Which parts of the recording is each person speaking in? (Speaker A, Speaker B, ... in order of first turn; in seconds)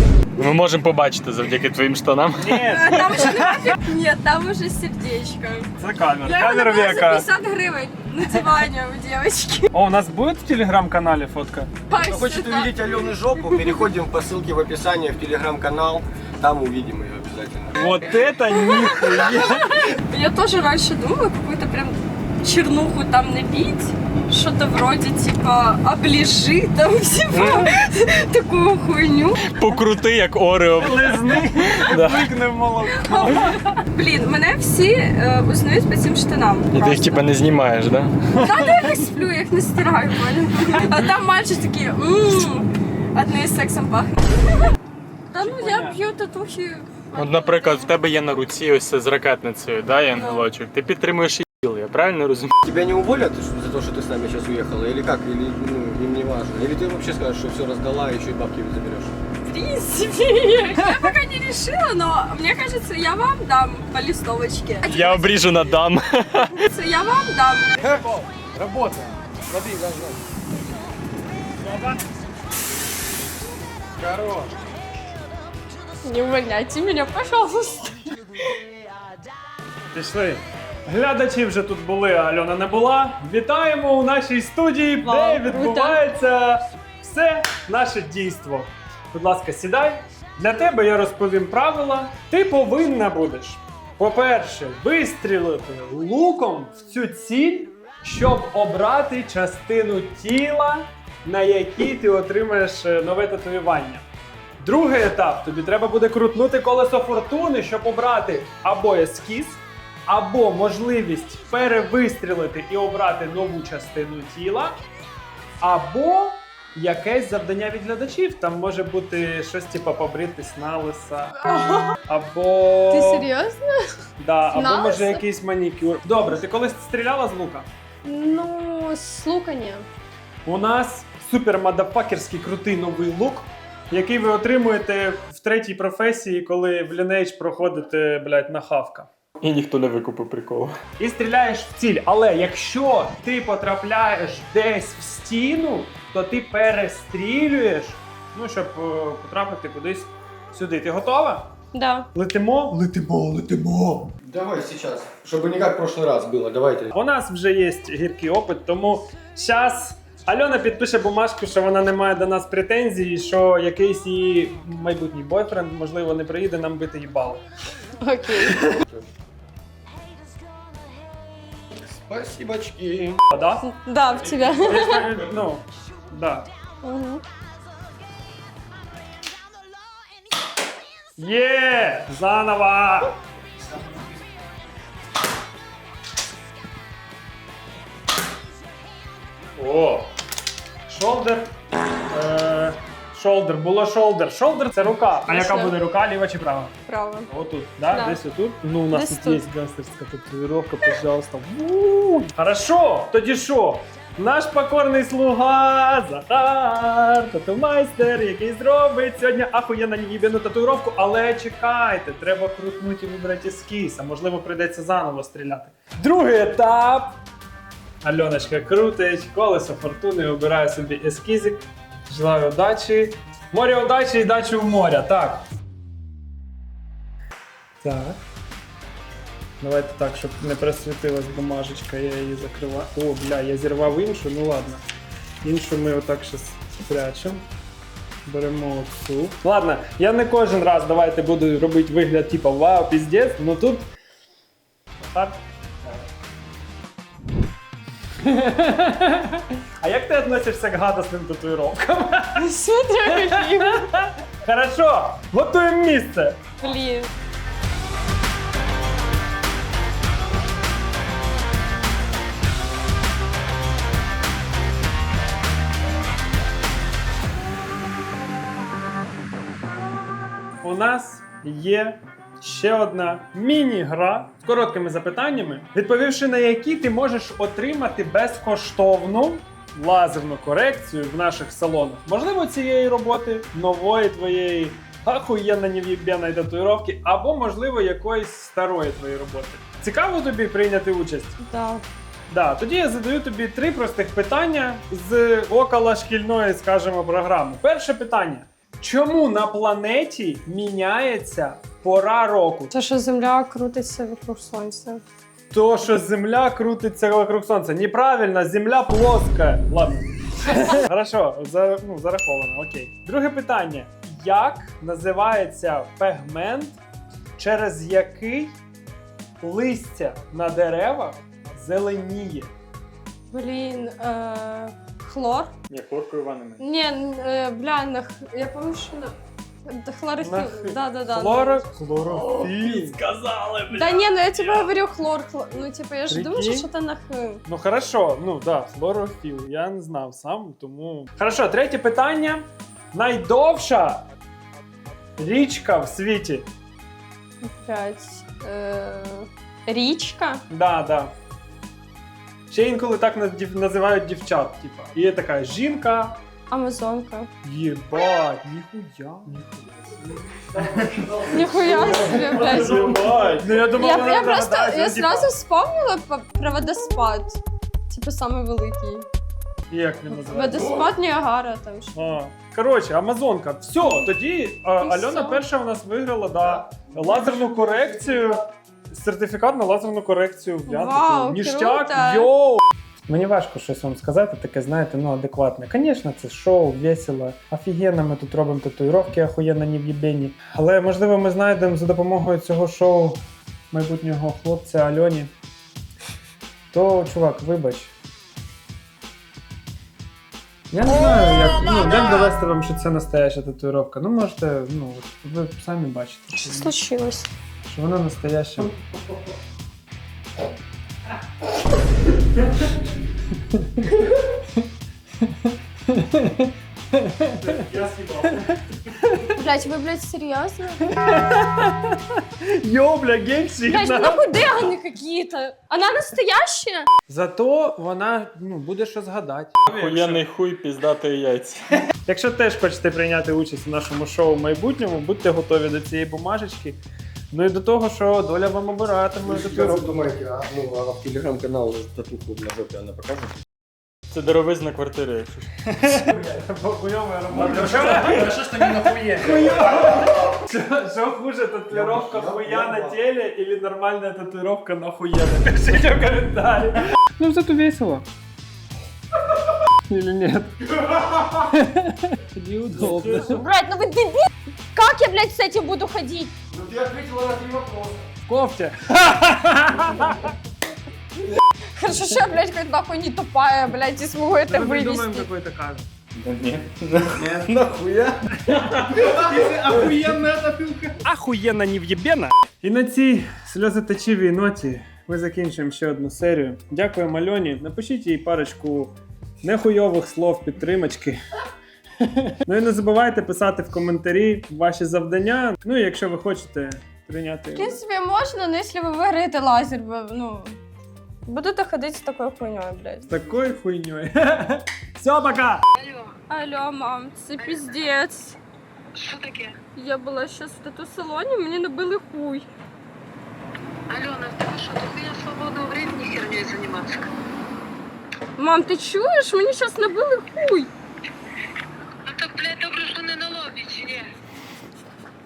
Speaker A: 0.4-2.6, 27.3-27.7, 29.5-31.2, 31.7-32.2, 36.7-38.1, 47.1-52.5, 64.8-66.6, 139.4-140.8, 189.6-190.1, 325.7-326.6, 332.1-334.7, 429.7-431.6, 444.1-446.0, 476.2-478.1
Speaker B: 2.4-3.7, 5.8-7.2, 9.7-11.7, 17.7-19.8, 30.8-33.6, 45.4-46.0, 71.7-71.9, 79.9-104.0, 104.6-114.8, 115.6-121.4, 122.0-123.3, 124.2-127.7, 130.4-139.1, 141.0-151.5, 152.1-154.1, 156.9-167.4, 173.3-173.7, 174.3-176.5, 181.2-183.1, 190.9-191.5, 192.1-196.7, 197.3-217.2, 218.0-225.4, 227.8-228.2, 229.6-234.8, 235.4-237.4, 238.2-243.9, 245.0-246.0, 248.2-252.4, 253.1-256.4, 270.6-291.4, 292.3-302.7, 305.5-316.8, 317.4-318.6, 319.4-322.5, 330.2-333.0, 336.1-336.7, 337.4-344.0, 345.2-346.5, 350.5-351.1, 352.5-356.2, 357.4-359.5, 361.5-365.3, 369.7-370.8, 371.9-393.2, 393.7-395.3, 396.7-397.9, 400.7-406.8, 407.6-408.7, 413.5-414.2, 415.4-417.7, 418.2-419.3, 420.8-424.2, 427.1-430.2, 432.1-436.8, 437.3-439.9, 445.9-448.4, 449.2-458.0, 459.9-460.7, 461.3-463.4, 468.3-470.3, 474.5-475.9, 478.3-480.0, 481.0-491.2, 492.0-497.8, 503.1-505.6
Speaker C: 2.6-5.7, 6.2-9.7, 11.9-13.9, 18.5-29.4, 32.9-37.2, 38.4-44.7, 45.3-47.9, 50.1-50.4, 59.5-65.2, 66.7-67.8, 76.0-78.1, 85.0-86.0, 121.4-122.0, 122.9-123.8, 124.5-125.2, 128.0-129.8, 151.7-152.1, 168.0-168.8, 173.6-175.1, 176.8-177.2, 195.3-195.8, 196.8-197.3, 197.9-198.2, 198.9-199.4, 252.3-253.9, 256.6-257.1, 291.4-291.8, 302.7-305.0, 323.3-325.5, 326.6-329.1, 329.6-331.6, 333.7-337.4, 347.4-350.4, 356.5-357.3, 361.3-362.8, 363.7-369.1, 370.2-371.9, 373.8-374.1, 374.8-375.4, 380.7-382.3, 406.3-407.3, 419.3-420.9, 423.6-426.9, 463.2-466.3, 471.8-475.3, 497.5-500.6, 501.2-503.1, 506.3-508.4, 509.7-512.5, 518.4-520.7
Speaker D: 12.0-18.2, 52.6-59.1, 67.8-70.2, 74.0-74.5, 154.2-156.9, 168.7-169.0, 171.9-173.2, 360.5-361.2, 362.8-363.4, 439.2-443.3, 447.3-449.5, 451.7-453.0, 466.5-468.0, 479.3-480.0
Speaker E: 505.8-506.1, 507.4-507.6, 509.0-509.6, 513.9-517.1, 522.1-524.1